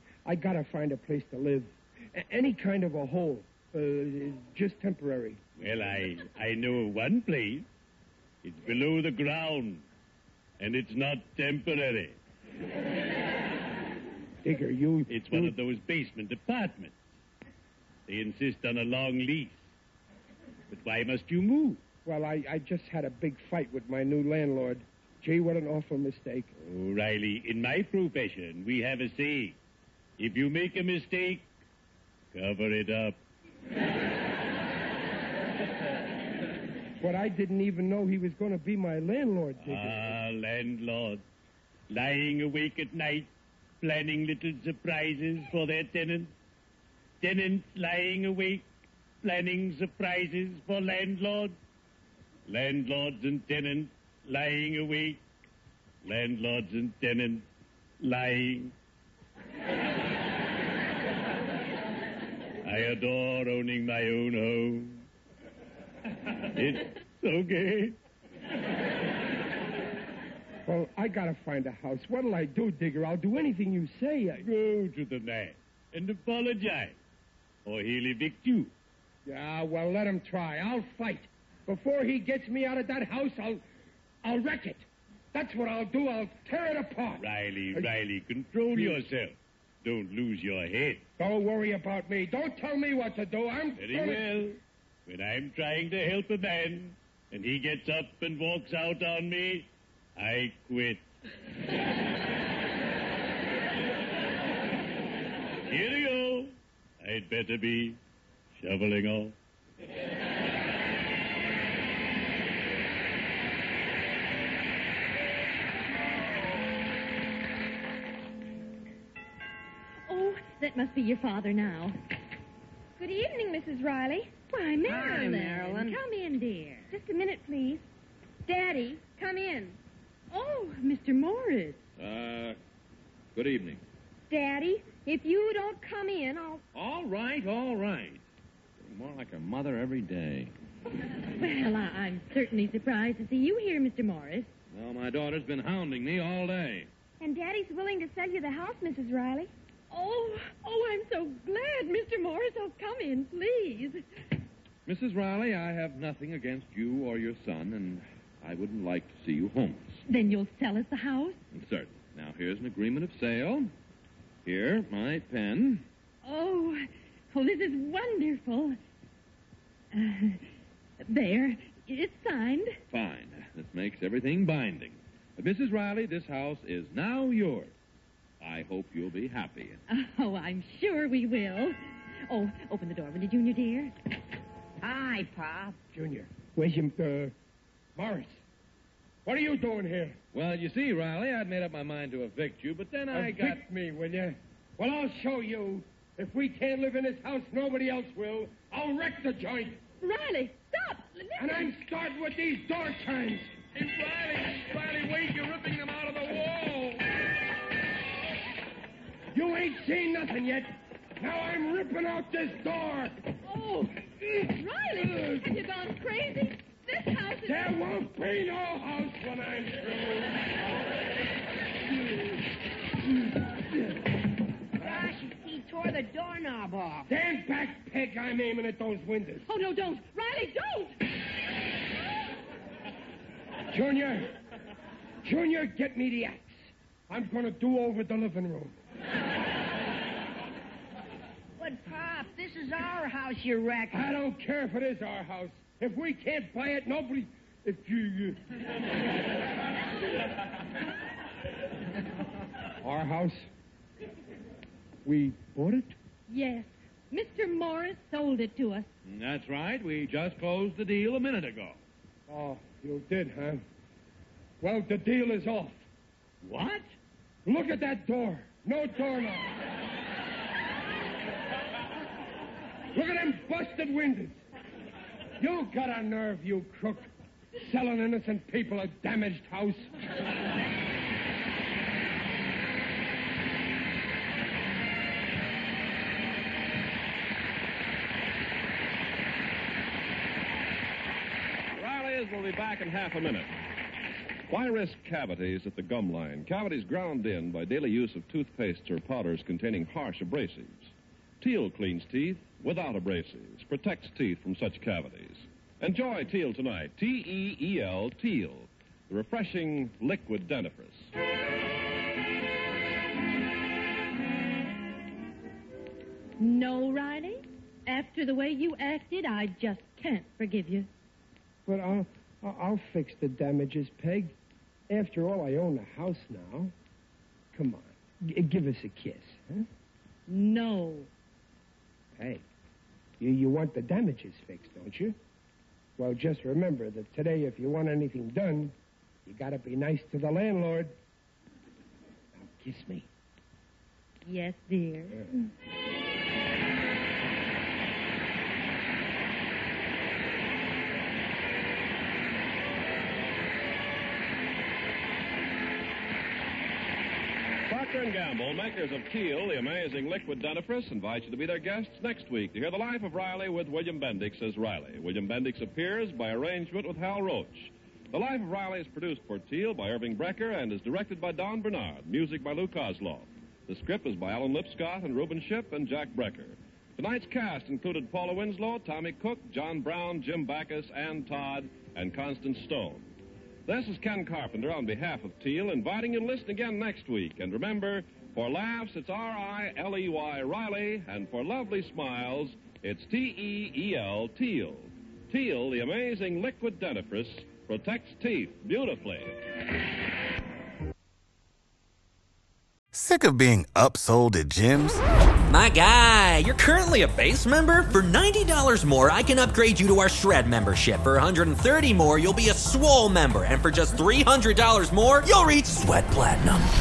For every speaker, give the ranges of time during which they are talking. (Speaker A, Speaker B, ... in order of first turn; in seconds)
Speaker A: 0.2-5.4, 14.4-15.5, 22.0-26.5, 37.0-40.2, 70.6-74.4, 79.2-83.6, 84.2-87.9, 88.7-89.0, 91.2-94.5, 185.9-187.3, 187.9-188.4, 189.2-190.2, 193.1-199.8, 201.4-203.5, 209.3-213.2, 217.4-220.5, 227.1-229.5, 233.7-234.3, 235.2-236.5, 237.1-238.8, 243.9-248.4, 252.8-253.5, 255.0-255.9, 262.3-263.6, 264.6-265.8, 267.4-269.6, 272.9-274.4, 275.4-279.9, 321.6-324.3, 324.9-326.7, 327.5-329.7, 332.1-332.4, 333.2-335.1, 336.0-338.7, 339.2-340.9, 342.3-343.1
Speaker B: 5.6-7.7, 8.4-9.8, 10.6-12.2, 15.1-17.0, 18.1-19.6, 20.7-21.8, 26.6-29.6, 30.2-31.5, 32.3-33.2, 39.6-41.2, 41.9-46.3, 47.2-48.7, 49.2-51.5, 52.5-55.2, 56.0-57.5, 58.0-58.7, 62.6-65.0, 66.4-68.0, 74.4-77.0, 77.6-78.7, 87.2-91.0, 93.8-101.1, 105.6-108.0, 108.5-109.3
Speaker C: 120.1-122.0, 124.5-126.9, 130.3-131.8, 141.4-144.5, 149.9-154.0, 160.1-161.4, 166.2-168.8, 169.9-170.4, 171.0-172.8, 179.9-183.9, 200.0-201.7, 213.4-217.7, 229.5-231.0, 256.3-258.9, 316.4-320.9, 330.3-331.1, 344.2-345.5
Speaker D: 123.0-124.3, 126.9-127.8, 128.4-129.8, 134.3-136.6, 147.2-149.5
Speaker E: 124.8-126.0, 184.8-185.8, 224.8-227.1, 241.6-244.1
Speaker F: 132.0-132.6, 133.3-133.8, 136.7-138.2, 138.8-140.5, 144.7-146.9, 154.8-160.0, 161.5-163.7, 164.4-165.8, 172.9-177.7, 178.4-179.8, 190.3-193.6, 259.0-261.8, 266.4-266.8
Speaker G: 203.8-207.0, 291.7-293.5, 294.5-311.1, 357.7-383.1, 383.6-399.4
Speaker H: 402.9-405.0
Speaker I: 405.5-416.7